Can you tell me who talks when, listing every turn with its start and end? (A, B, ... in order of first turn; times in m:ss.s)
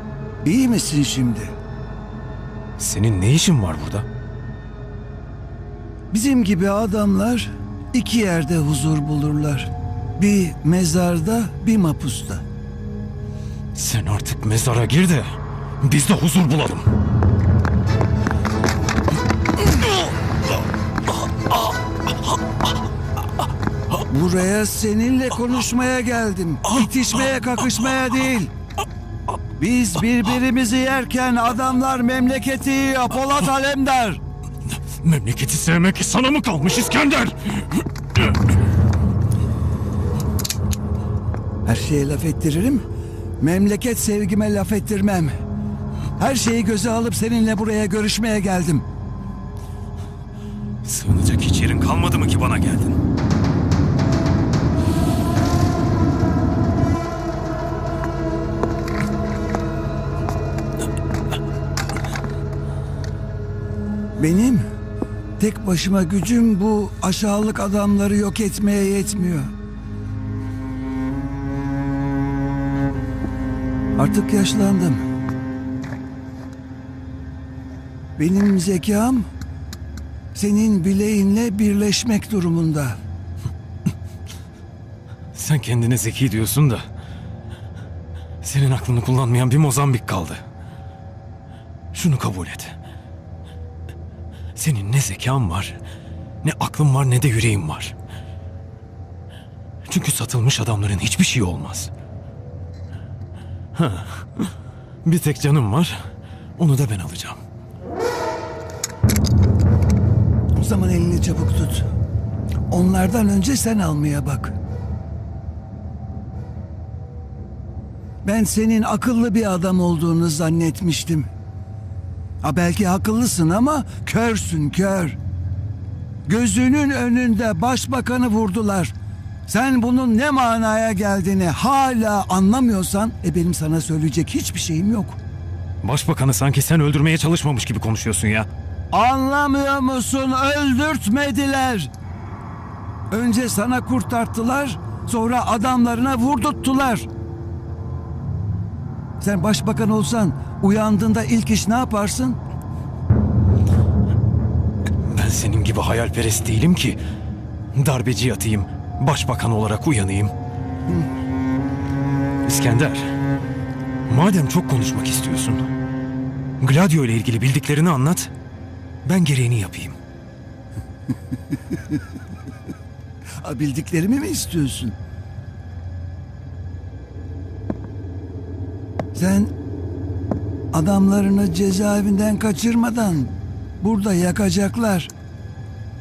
0:00.4-0:01.5 A
0:02.8-0:04.0 B
0:06.1-0:12.4 A
0:13.7-0:16.9 B
0:24.1-0:28.5 A
0:29.6-0:34.2 A
0:34.8-0:37.8 B
0:41.6-0:42.8 A
0:43.4-0:45.4 A
0:46.2-0:48.8 A
0:50.8-0:53.0 B
1:04.2-1:04.7 A
1:05.4-1:09.5 A
1:14.0-1:15.0 A
1:18.2-1:19.3 A
1:20.3-1:23.0 A
1:25.3-1:26.8 B
1:28.4-1:30.4 B
1:31.9-1:32.8 B
1:34.6-1:35.8 B
1:36.4-1:37.9 B
1:39.8-1:41.9 B
1:43.8-1:44.5 B
1:45.0-1:46.0 B
1:46.6-1:47.4 B
1:50.6-1:51.9 A
1:52.7-1:54.6 A
1:58.2-2:01.3 A
2:02.4-2:05.2 A
2:06.2-2:08.9 A
2:09.5-2:15.2 A
2:15.8-2:18.5 B
2:18.9-2:21.9 A
2:23.1-2:27.1 A
2:29.2-2:32.4 A
2:35.0-2:37.0 B
2:37.8-2:40.3 B
2:42.4-2:43.1 B
2:44.1-2:45.7 B
2:46.6-2:48.3 B
2:49.0-2:50.0 B
2:53.4-2:55.0 A
2:59.2-2:59.5 A
3:00.7-3:05.1 A